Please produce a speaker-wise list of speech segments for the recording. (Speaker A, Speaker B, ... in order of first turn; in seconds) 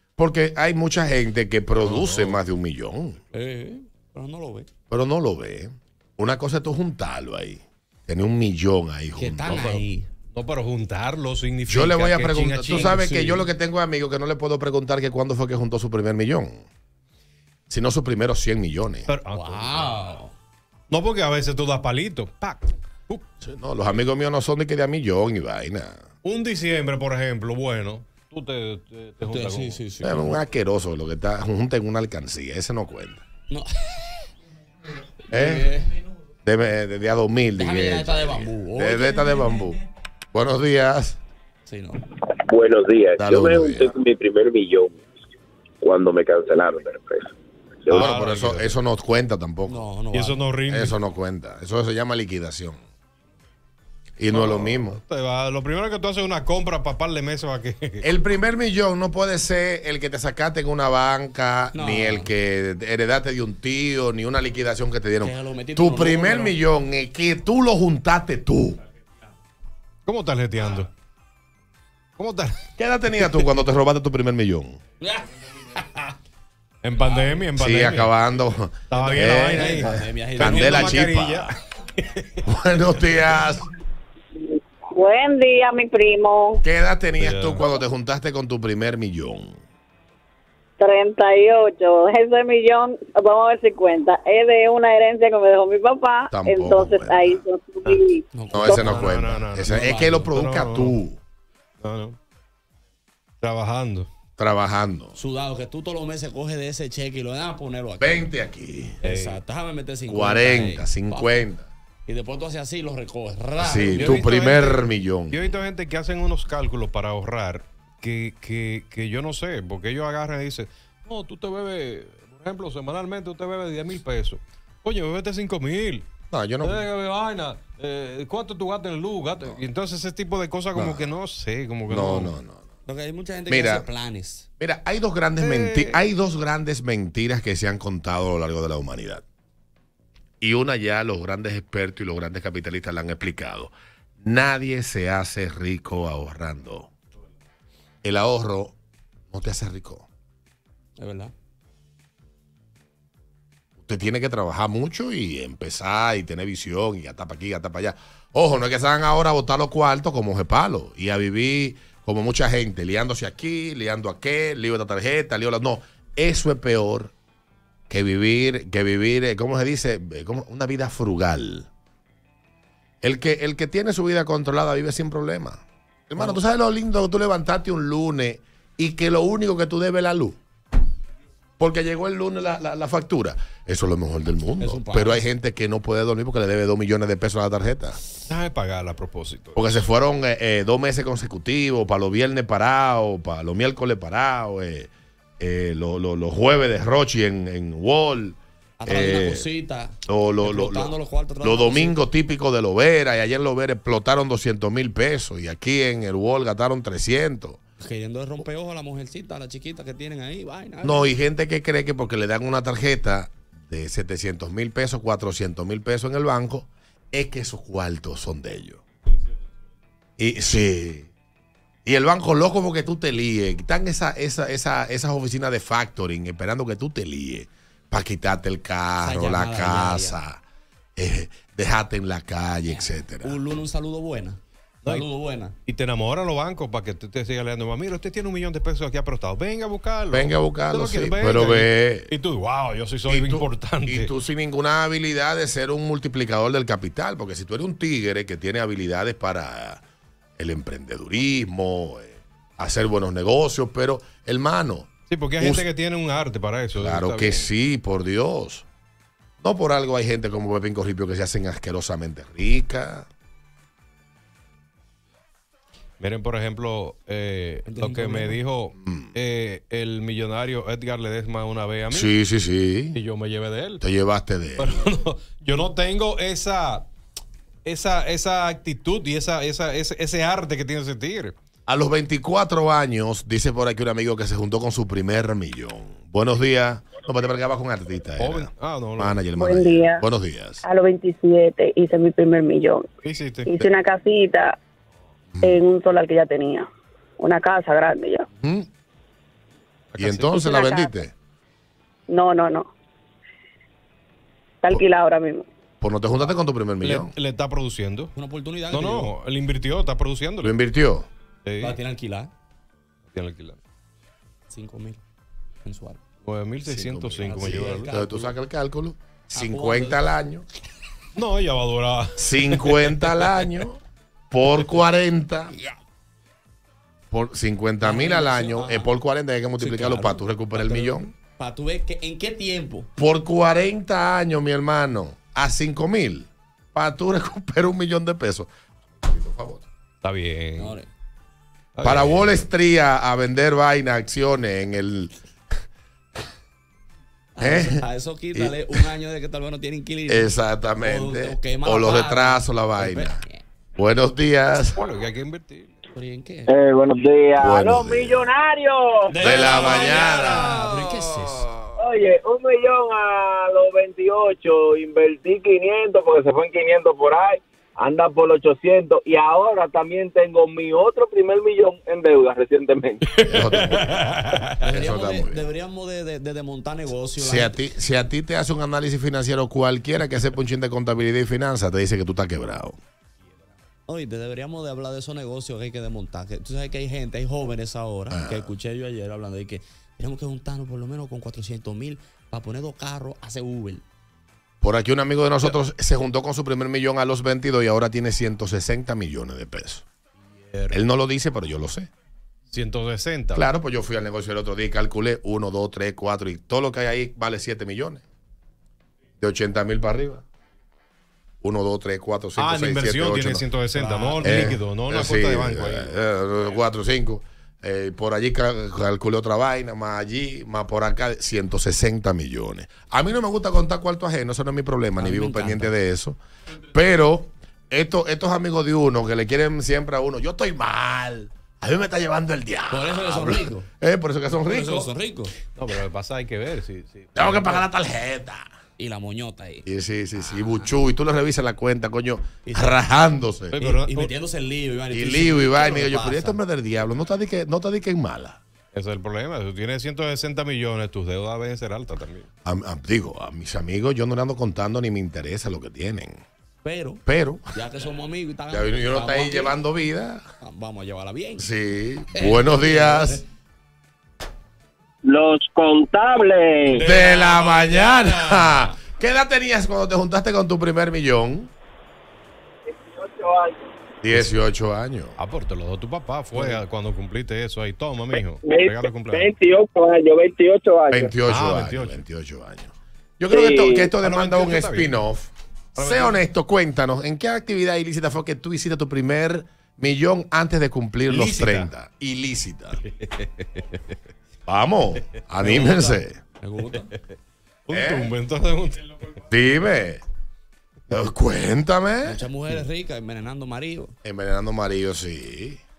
Speaker A: 0.2-3.2, 4.9-9.8, 11.7-16.6, 17.7-19.1, 23.4-26.0, 30.0-33.2, 35.3-35.7, 36.5-41.2, 43.2-44.0, 47.9-49.8, 50.7-52.8, 54.2-55.0, 58.0-68.8, 72.8-74.8, 77.6-81.5, 82.5-83.7, 86.6-89.6, 96.3-97.4, 98.5-101.2, 104.4-105.2, 108.0-109.0, 110.1-111.7, 113.6-115.5, 126.3-126.8, 130.8-131.1, 131.9-132.7, 133.5-133.9, 134.6-139.2, 140.4-146.9, 148.0-148.8, 149.3-150.1, 153.8-167.1, 167.9-171.7, 173.0-180.4, 181.6-188.0, 189.6-199.5, 200.1-207.6, 210.8-218.8, 220.2-221.1, 221.8-230.4, 231.0-233.4, 240.1-242.1, 243.1-249.8, 250.4-255.7, 256.8-258.7, 259.4-263.1, 268.8-269.1, 271.9-273.0, 273.8-274.9, 281.7-290.6, 295.3-295.6, 298.4-298.7, 300.0-301.1, 305.8-307.1, 310.4-311.1, 316.7-320.5, 322.2-323.8, 324.3-325.5, 327.1-331.1, 333.0-339.6, 341.8-345.1, 347.4-347.8, 348.3-348.8, 350.1-353.2, 353.8-354.8, 357.4-358.3, 359.2-360.7, 373.3-374.0, 374.7-375.5, 377.2-382.8, 388.1-388.5, 394.6-399.9, 400.7-401.9, 403.3-408.0, 409.2-410.2, 411.4-413.4, 414.2-426.2, 426.7-434.9, 437.2-438.5, 439.6-443.6, 444.9-448.4, 452.4-456.2, 457.1-457.4, 458.5-460.2, 461.4-463.2, 466.7-471.5, 474.0-475.2, 480.9-492.8, 494.5-496.2, 497.7-498.1, 499.3-500.0, 500.9-502.2, 504.0-505.6
Speaker B: 1.8-2.4, 9.5-13.0, 19.1-20.0, 20.9-23.2, 26.2-29.8, 47.9-48.8, 50.1-51.0, 54.3-58.0, 70.1-70.9, 72.2-72.6, 76.8-78.1, 78.9-82.4, 87.2-87.7, 98.8-101.0, 101.8-102.2, 103.4-104.1, 109.0-109.4, 113.9-126.1, 126.6-132.3, 135.4-136.0, 188.2-189.8, 235.7-244.1, 255.1-257.5, 266.0-272.1, 272.9-273.8, 274.6-276.9, 277.6-281.4, 288.2-289.2, 293.0-293.5, 299.9-300.4, 306.8-308.1, 308.7-310.5, 311.4-311.8, 313.1-313.6, 316.2-317.9, 321.1-323.5, 340.0-340.8, 341.8-342.4, 354.8-355.7, 373.1-374.5, 400.5-400.8, 402.5-403.5, 412.4-416.0, 435.6-437.7, 443.5-444.1, 448.7-452.3, 475.2-479.3, 481.3-482.0, 484.0-485.0, 485.8-486.2, 491.1-491.7, 492.8-493.8, 497.7-499.1
Speaker C: 3.3-4.7, 9.2-10.1, 12.7-13.5, 19.3-20.3, 29.2-30.4, 33.5-34.3, 35.3-36.0, 37.5-39.4, 41.6-42.0, 49.7-50.4, 61.7-62.3, 65.2-66.6, 75.0-76.1, 79.2-81.0, 98.3-100.3, 105.2-108.3, 109.0-111.4, 112.1-114.3, 132.8-134.5, 151.0-151.3, 176.2-176.4, 184.6-185.3, 198.8-202.0, 207.8-211.2, 229.0-230.2, 232.7-235.6, 267.7-268.4, 308.1-309.1, 311.6-312.3, 314.5-315.0, 315.6-316.0, 316.8-318.4, 319.3-320.1, 327.8-328.9, 329.6-332.9, 340.6-340.9, 347.4-353.4, 355.9-356.5, 359.1-361.5, 374.6-377.6, 383.9-393.9, 413.7-414.5, 425.0-425.8, 432.7-433.7, 434.4-435.4, 438.8-440.8, 442.5-442.8, 443.6-446.4, 456.6-459.6, 460.4-461.5, 462.1-463.2, 467.4-467.8, 495.4-496.9, 502.1-503.9
Speaker D: 42.5-44.9, 45.8-47.3
Speaker E: 85.0-86.6, 90.8-98.8, 289.4-290.0, 290.6-292.8, 293.5-294.6, 295.4-296.7, 297.2-298.2, 300.4-301.0, 302.1-302.7, 304.6-305.4
Speaker F: 356.5-360.4, 361.8-373.0, 465.0-466.8, 472.8-473.7, 478.4-481.1, 483.3-483.9